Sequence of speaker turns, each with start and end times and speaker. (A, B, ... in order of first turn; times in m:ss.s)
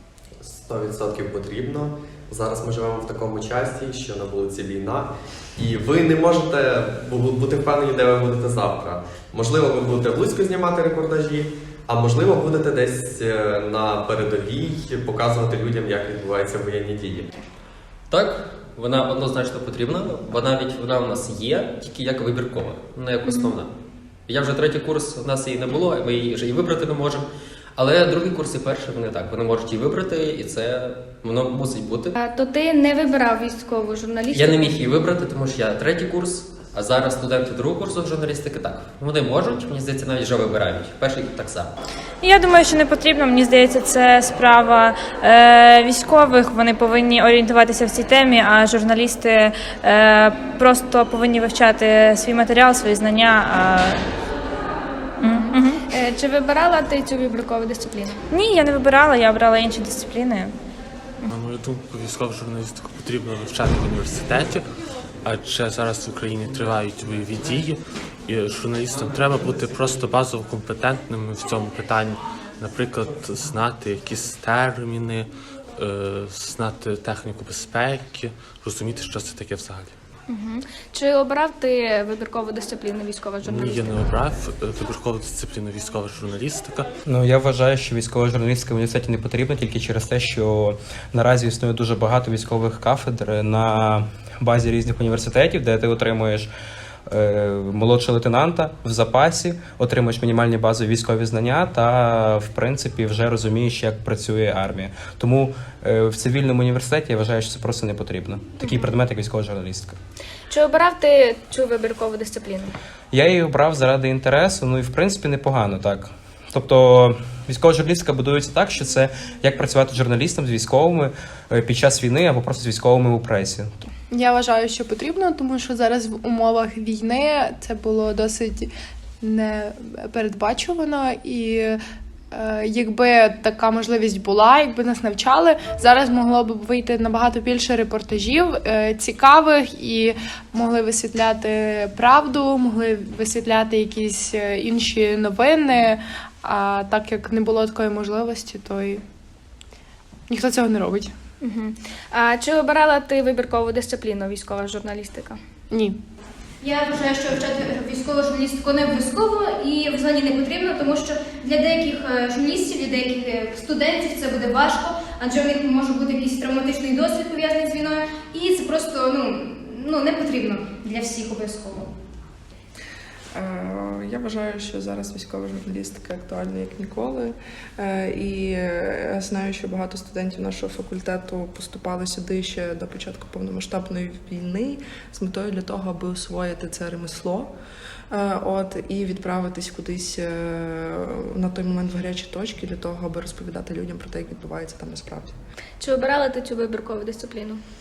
0:00.4-0:17.3 A
0:18.1-0:23.7 B
0:23.2-0:23.6 C
0:23.2-0:23.5 D
0:24.3-0:27.2 B
0:27.8-0:32.1 B
0:32.2-0:34.9 D
0:34.4-0:41.7 B
0:42.2-0:54.0 E
0:55.2-0:55.8 E
0:55.3-0:58.2 D
0:58.3-1:00.5 E
1:01.3-1:04.7 F
1:05.2-1:20.0 F
1:20.3-1:24.0 D
1:23.5-1:26.9 F
1:27.0-1:36.5 G
1:37.1-1:50.0 G
1:48.6-1:48.9 D
1:50.5-1:52.7 D
1:53.1-2:03.9 G
2:04.1-2:11.8 H
2:12.3-2:29.0 H
2:30.3-2:31.1 H
2:31.4-2:35.4 D
2:35.7-2:36.0 H
2:36.6-2:51.9 C
2:53.3-3:07.5 I
3:08.1-3:15.3 I
3:15.8-3:17.6 D